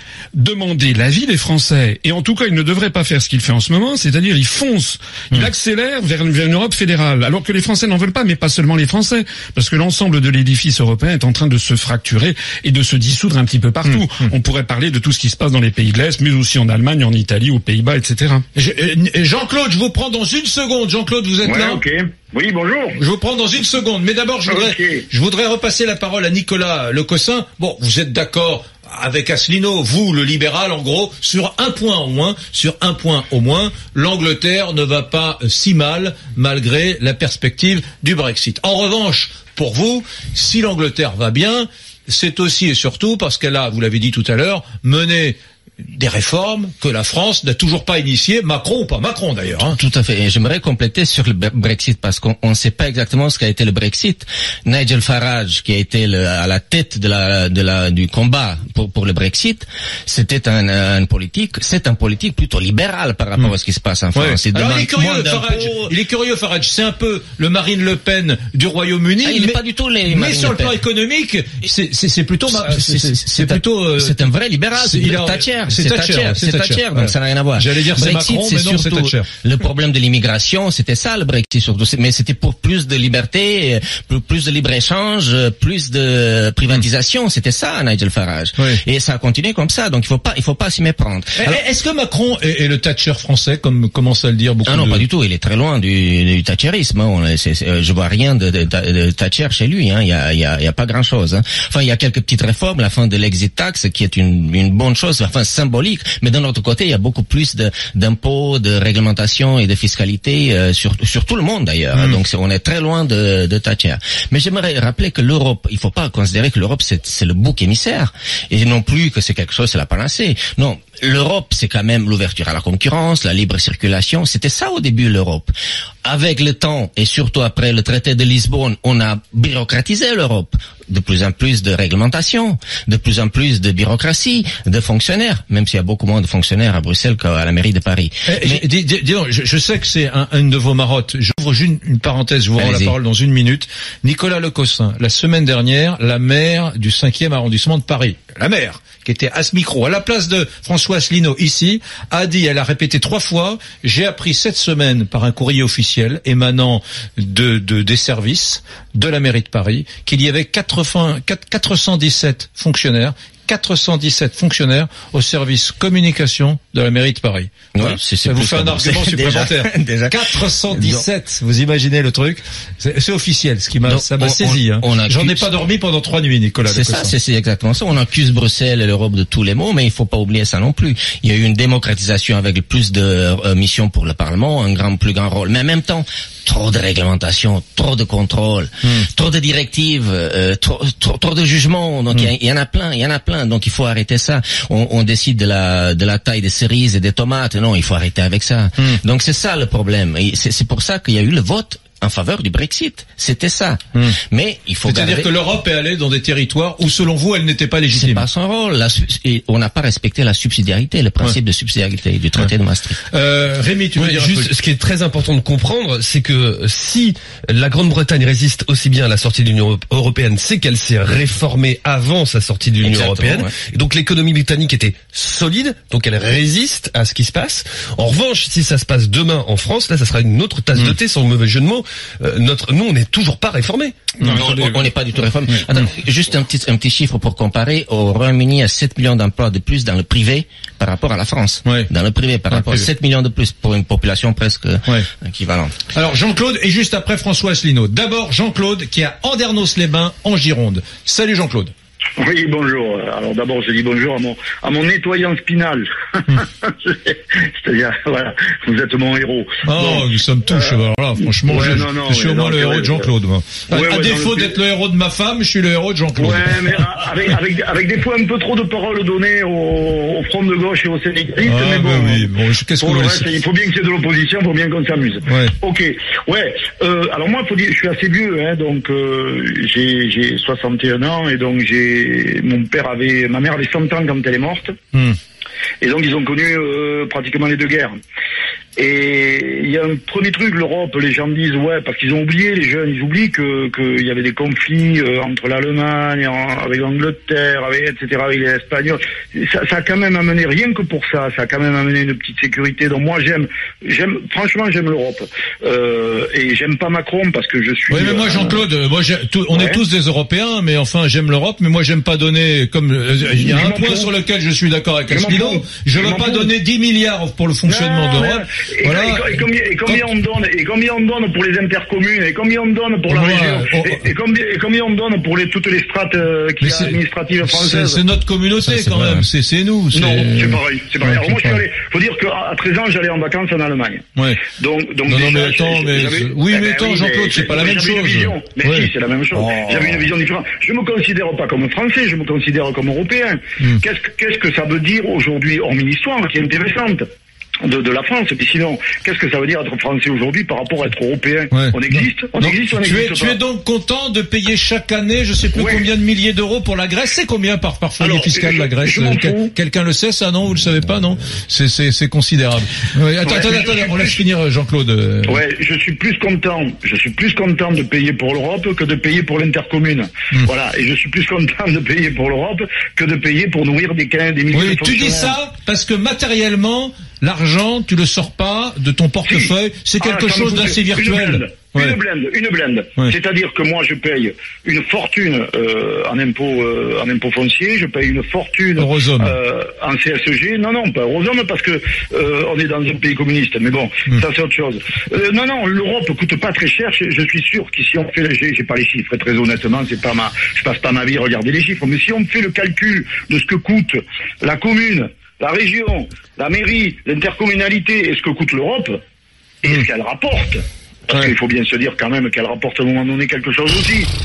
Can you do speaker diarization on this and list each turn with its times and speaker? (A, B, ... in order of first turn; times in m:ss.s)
0:00.4-0:18.4 A
0:13.8-0:14.3 B
0:18.6-0:21.8 B
0:21.4-0:23.0 C
0:23.0-0:49.8 B
0:24.5-0:25.0 C
0:49.7-1:06.0 D
1:04.2-1:14.2 B
1:09.2-1:10.8 D
1:12.5-1:31.6 D
1:14.8-1:19.3 B
1:31.4-1:35.0 B
1:34.6-2:05.5 D
1:52.0-1:52.2 B
2:06.0-2:18.6 D
2:18.3-2:57.1 B
2:22.6-2:23.0 D
2:47.7-2:51.0 D
2:53.8-2:55.5 D
2:56.7-3:25.3 D
3:24.9-3:28.3 B
3:27.9-3:33.0 D
3:33.1-3:34.5 B
3:34.0-3:54.0 E
3:42.8-3:43.5 D
3:54.2-3:54.7 B
3:54.2-4:05.7 D
3:54.3-3:54.6 A
4:02.5-4:02.9 B
4:05.9-4:11.7 B
4:12.2-4:20.7 C
4:19.6-4:26.7 B
4:21.5-4:23.1 C
4:23.7-4:24.5 C
4:26.2-4:32.3 C
4:31.4-4:33.3 B
4:32.8-4:44.7 C
4:35.3-4:35.6 B
4:45.8-4:48.0 C
4:48.8-5:08.6 C
5:07.9-5:20.0 B
5:09.5-5:09.8 C
5:13.3-5:14.1 C
5:15.1-5:16.5 C
5:17.7-5:28.0 C
5:23.1-5:24.0 B
5:26.6-5:31.6 B
5:28.6-5:29.3 D
5:29.9-5:47.0 C
5:34.2-5:34.5 B
5:35.1-5:40.1 B
5:47.6-5:53.4 C
5:51.5-6:05.4 B
5:55.6-5:55.8 C
5:58.0-5:59.5 C
6:03.2-6:04.2 C
6:05.3-6:15.4 C
6:14.5-6:22.0 B
6:19.3-6:49.0 C
6:28.8-6:29.4 B
6:49.6-6:54.1 C